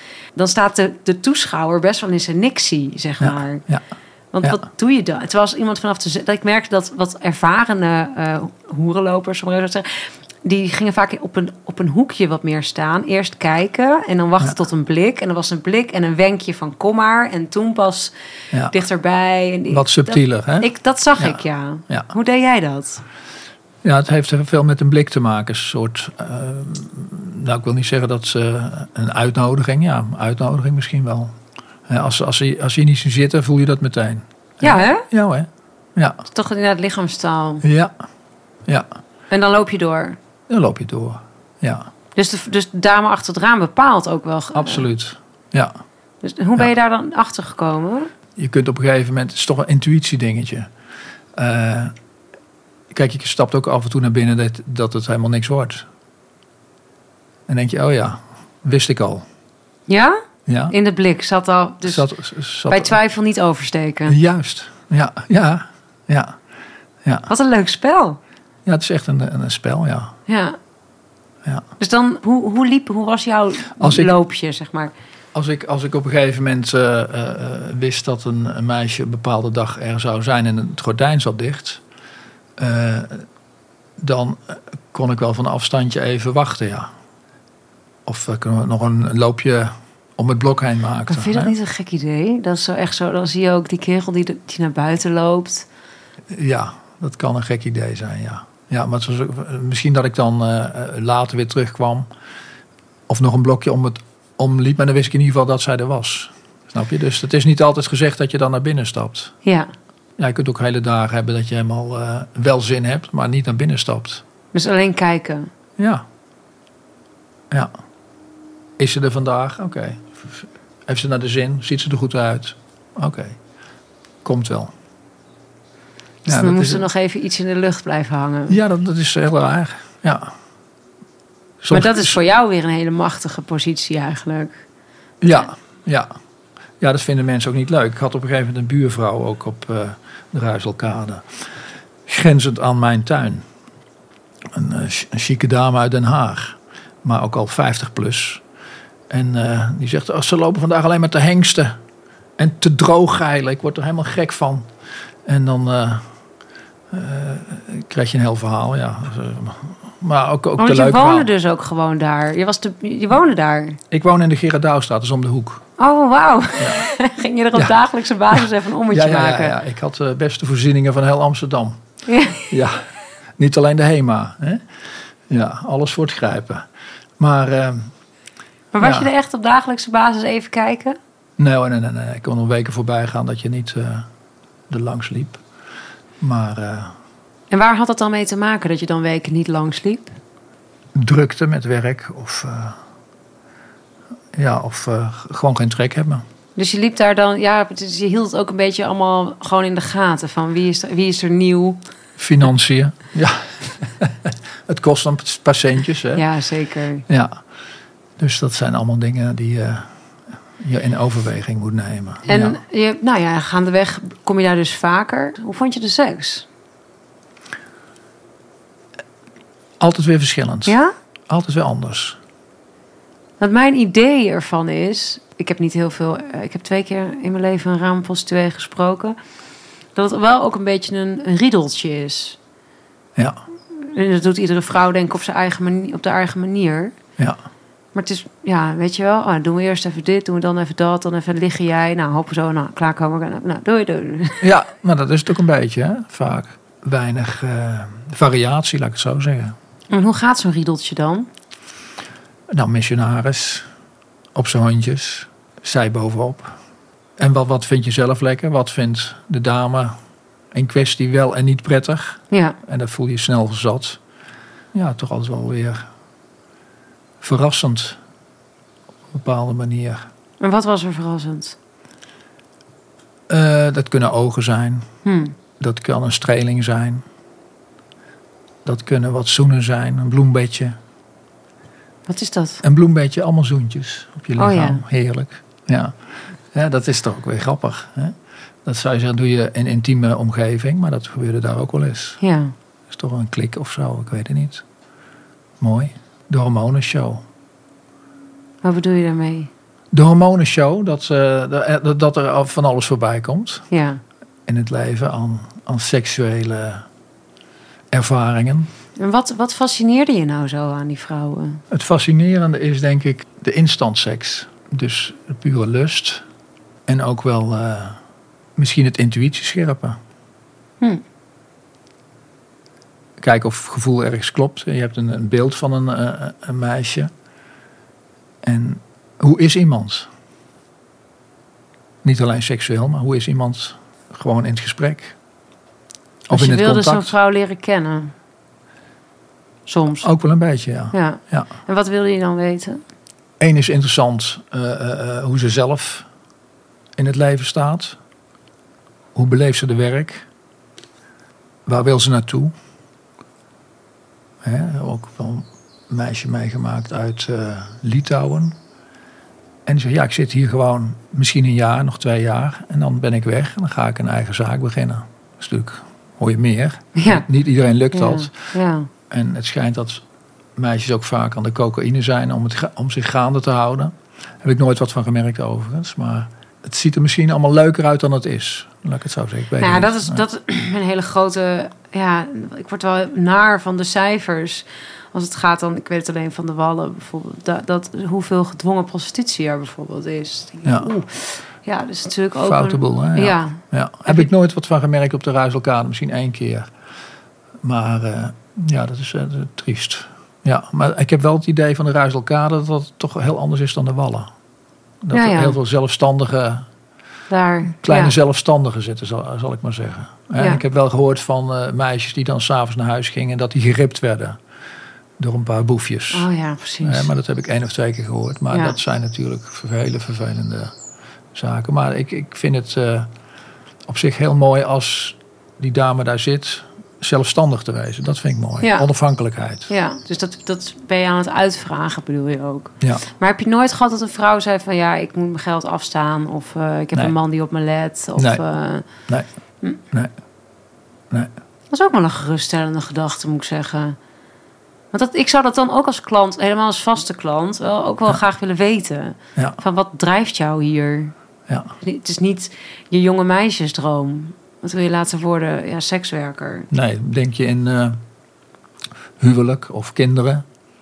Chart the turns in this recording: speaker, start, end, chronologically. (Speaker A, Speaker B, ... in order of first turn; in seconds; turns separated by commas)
Speaker A: 0.3-3.6, Speaker B: 3.2-3.8, Speaker A: 4.3-18.1, Speaker A: 18.7-23.0, Speaker B: 19.7-22.1, Speaker B: 23.8-31.3, Speaker B: 31.9-36.2, Speaker A: 34.6-35.0, Speaker A: 36.3-37.6, Speaker B: 37.6-37.9, Speaker A: 39.3-40.2, Speaker B: 40.5-41.9, Speaker A: 42.1-44.9, Speaker B: 44.5-45.8, Speaker A: 46.2-48.1, Speaker B: 48.4-50.7, Speaker B: 51.4-51.9, Speaker B: 52.9-55.9, Speaker B: 57.5-59.2, Speaker A: 59.9-60.2, Speaker B: 60.5-60.7, Speaker A: 60.7-62.0, Speaker B: 61.8-63.0, Speaker A: 62.7-64.2, Speaker B: 64.1-66.4, Speaker B: 67.0-67.3, Speaker A: 67.3-68.2, Speaker B: 68.6-70.1, Speaker A: 70.3-70.6, Speaker A: 71.8-74.9, Speaker B: 73.8-74.1, Speaker B: 75.3-81.8, Speaker B: 82.6-83.2, Speaker B: 84.0-86.9, Speaker B: 88.0-91.5, Speaker A: 91.1-95.7, Speaker B: 96.3-102.0, Speaker B: 103.1-109.3, Speaker B: 110.2-114.2, Speaker A: 114.5-115.5, Speaker B: 115.8-116.0, Speaker B: 118.8-123.4, Speaker B: 124.2-124.7, Speaker A: 126.2-128.6, Speaker B: 126.2-126.8, Speaker B: 128.5-130.3, Speaker B: 131.6-132.2, Speaker A: 131.7-134.6, Speaker B: 135.2-136.1, Speaker B: 136.8-141.4, Speaker B: 142.1-143.4, Speaker B: 144.5-148.4, Speaker B: 149.1-151.8, Speaker B: 152.4-154.7, Speaker B: 155.2-156.0, Speaker B: 156.9-161.3, Speaker A: 160.6-163.8, Speaker B: 163.9-165.6, Speaker A: 165.8-169.6, Speaker B: 168.3-171.8, Speaker A: 172.1-172.5, Speaker B: 172.5-172.8, Speaker B: 173.4-174.6, Speaker B: 175.3-176.7, Speaker B: 177.2-177.9, Speaker A: 178.7-181.0, Speaker B: 178.8-179.1, Speaker B: 181.4-184.1, Speaker B: 184.7-185.4, Speaker B: 186.2-186.9, Speaker A: 187.5-190.2, Speaker B: 190.9-192.8, Speaker B: 194.3-196.2, Speaker A: 196.6-201.8, Speaker B: 202.2-206.2, Speaker A: 206.1-207.0, Speaker B: 207.1-207.4, Speaker B: 208.2-209.9, Speaker B: 210.6-212.6, Speaker A: 212.2-216.4, Speaker B: 219.8-220.8, Speaker A: 220.7-220.9, Speaker B: 221.3-222.2, Speaker A: 223.4-229.2, Speaker A: 229.9-232.4, Speaker A: 233.8-236.9, Speaker A: 237.9-244.4, Speaker B: 244.4-249.6, Speaker A: 249.9-251.3, Speaker B: 252.5-253.7, Speaker B: 254.3-256.6, Speaker B: 257.2-259.9, Speaker B: 260.5-264.0, Speaker A: 262.3-262.6, Speaker B: 264.7-265.9, Speaker B: 267.2-268.0, Speaker B: 269.1-270.1, Speaker A: 270.4-271.6, Speaker B: 273.3-274.9, Speaker A: 275.0-275.3, Speaker B: 275.6-277.0, Speaker B: 278.6-280.8, Speaker A: 282.1-282.6, Speaker B: 282.6-285.9, Speaker A: 284.4-284.8, Speaker B: 286.5-292.2, Speaker A: 292.2-292.5, Speaker B: 292.9-294.6, Speaker B: 295.6-297.2, Speaker A: 298.6-299.5, Speaker B: 299.9-303.7, Speaker A: 303.7-304.0, Speaker B: 304.5-306.9, Speaker B: 307.9-308.7, Speaker A: 308.9-311.6, Speaker B: 311.7-316.2, Speaker B: 316.9-318.0, Speaker B: 318.6-320.0, Speaker B: 323.2-327.1, Speaker B: 328.4-330.1, Speaker B: 332.0-335.1, Speaker B: 336.3-337.1, Speaker A: 336.3-338.1, Speaker A: 339.7-340.1, Speaker B: 340.0-341.5, Speaker A: 340.9-342.8, Speaker B: 343.4-346.1, Speaker B: 347.0-348.0, Speaker B: 349.1-350.2, Speaker B: 351.6-352.5, Speaker B: 354.4-358.5, Speaker B: 359.6-368.3, Speaker A: 366.9-367.2, Speaker A: 367.9-368.9, Speaker B: 369.1-370.0, Speaker B: 370.6-380.2, Speaker A: 379.6-394.3, Speaker B: 392.4-396.7, Speaker B: 397.6-404.3, Speaker B: 405.0-406.7, Speaker A: 405.1-405.6, Speaker A: 407.3-408.1, Speaker B: 407.8-414.4, Speaker B: 415.2-416.3, Speaker A: 416.1-417.1, Speaker B: 416.8-420.7, Speaker A: 418.5-418.8, Speaker B: 421.3-423.1, Speaker B: 423.9-429.7, Speaker A: 429.7-438.9, Speaker B: 438.1-438.4, Speaker A: 441.7-443.9, Speaker A: 444.9-451.1, Speaker A: 451.8-456.7, Speaker B: 456.7-458.0, Speaker B: 459.2-460.4